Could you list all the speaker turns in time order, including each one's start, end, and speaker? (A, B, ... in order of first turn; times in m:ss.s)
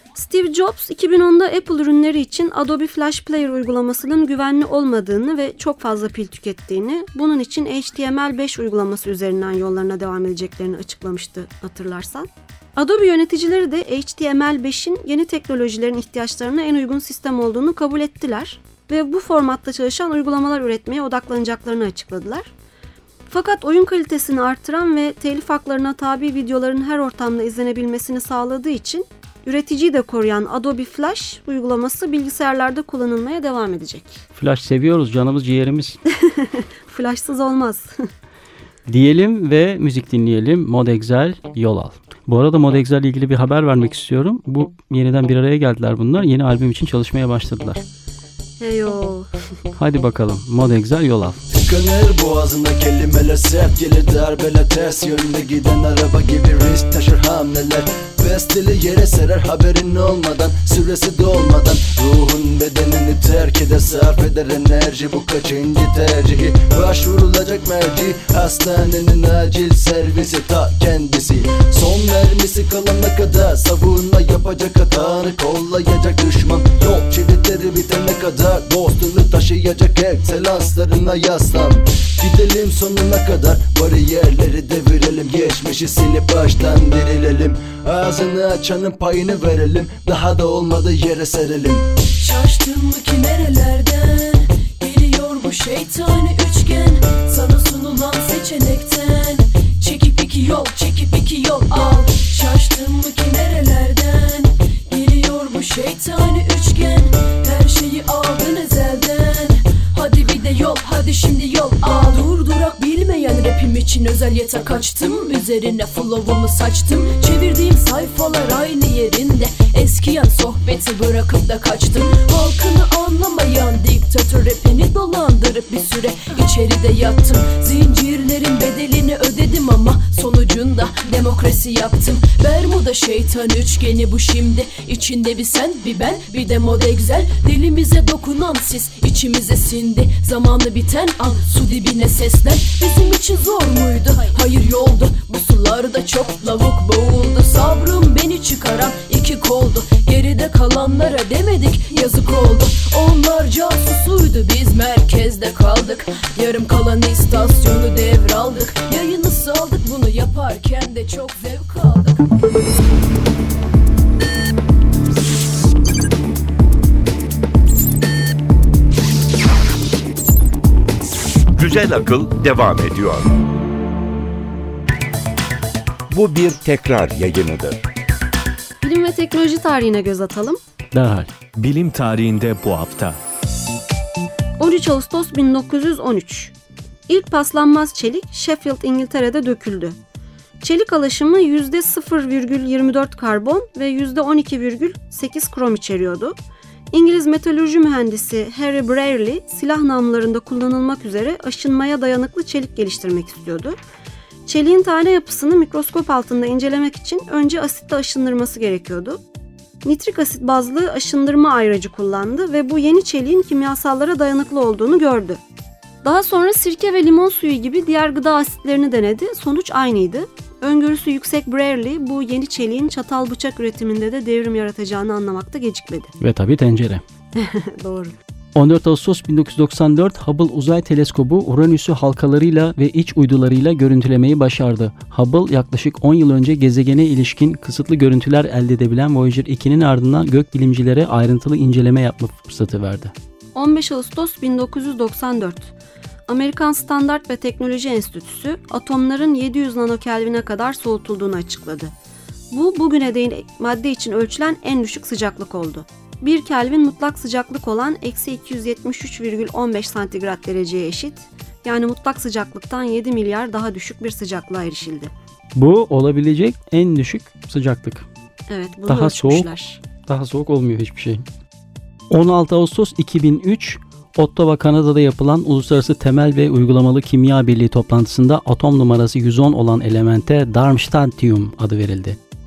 0:00.2-0:22.5 A
0:23.3-0:34.2 A
0:34.4-0:36.0 B
0:36.2-0:38.1 A
0:38.9-0:47.8 B
0:48.6-0:49.3 A
0:49.8-0:51.4 B
0:51.5-1:31.9 C
1:32.2-2:42.2 D
2:51.6-2:53.3 E
2:56.1-2:57.8 E
2:58.8-3:00.6 A
3:00.9-3:01.3 B
3:04.6-3:06.5 A
3:07.1-3:10.0 A
3:10.6-3:16.4 A
3:16.9-3:23.8 A
3:24.5-3:29.2 A
3:29.8-3:35.4 A
3:36.0-3:46.1 A
3:46.2-3:47.0 B
3:47.4-3:48.2 A
3:48.6-4:03.1 B
4:03.6-4:05.7 A
4:06.3-4:11.9 A
4:12.5-4:25.1 A
4:25.6-4:28.1 B
4:28.5-4:29.8 A
4:28.9-4:29.5 B
4:30.1-4:31.2 B
4:32.1-4:42.2 B